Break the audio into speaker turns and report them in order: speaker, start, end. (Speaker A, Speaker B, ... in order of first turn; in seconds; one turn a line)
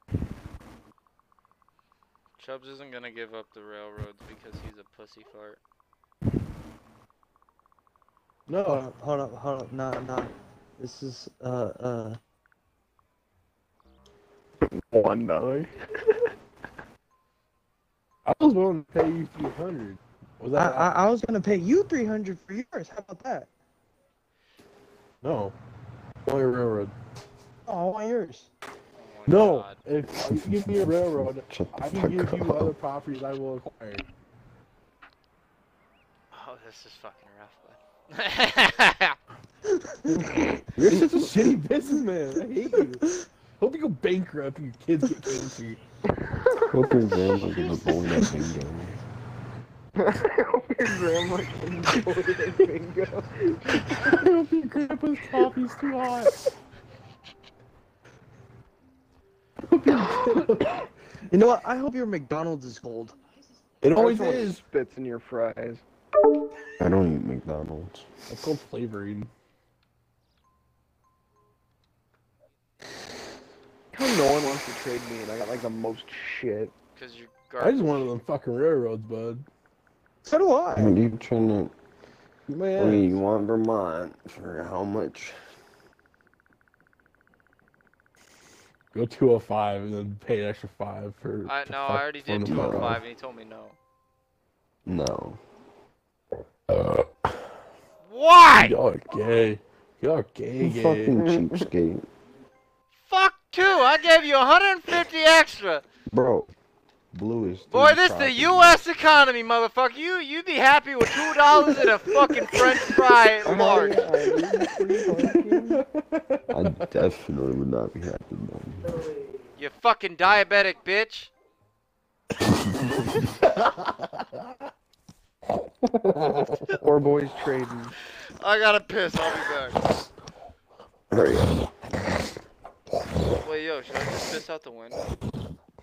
Speaker A: 2.4-5.6
Speaker B: 8.5-8.8
Speaker C: 8.5-12.2
Speaker D: 14.6-16.3
Speaker B: 18.2-20.9
Speaker C: 20.5-23.5
Speaker B: 25.2-25.5
Speaker B: 26.2-26.9
Speaker C: 27.7-28.5
Speaker A: 29.0-29.8
Speaker B: 29.3-34.0
Speaker E: 30.2-32.7
Speaker A: 36.3-39.2
Speaker B: 40.3-45.8
Speaker E: 40.7-41.3
Speaker D: 46.2-46.7
Speaker E: 46.6-49.0
Speaker D: 50.0-54.2
Speaker B: 53.8-56.5
Speaker B: 59.6-60.9
Speaker C: 61.3-63.1
Speaker B: 63.8-64.6
Speaker D: 63.9-65.8
Speaker E: 66.8-68.1
Speaker B: 68.3-69.3
Speaker D: 73.9-76.7
Speaker A: 77.0-78.1
Speaker B: 77.6-79.5
Speaker C: 80.2-80.9
Speaker E: 80.7-81.7
Speaker B: 82.5-83.2
Speaker E: 82.7-85.4
Speaker B: 88.9-93.0
Speaker A: 91.5-93.8
Speaker E: 92.4-93.0
Speaker E: 94.8-95.4
Speaker B: 96.7-97.5
Speaker A: 98.0-98.7
Speaker B: 98.6-101.2
Speaker E: 100.6-102.0
Speaker D: 101.2-101.6
Speaker A: 103.0-105.8
Speaker E: 106.1-106.5
Speaker E: 107.1-108.8
Speaker A: 107.7-114.1
Speaker D: 113.4-115.8
Speaker B: 114.1-117.0
Speaker E: 116.5-118.9
Speaker A: 119.6-121.3
Speaker B: 123.4-124.5
Speaker B: 126.1-126.6
Speaker D: 126.8-127.9
Speaker A: 128.4-129.8
Speaker E: 131.1-131.7
Speaker A: 133.4-135.1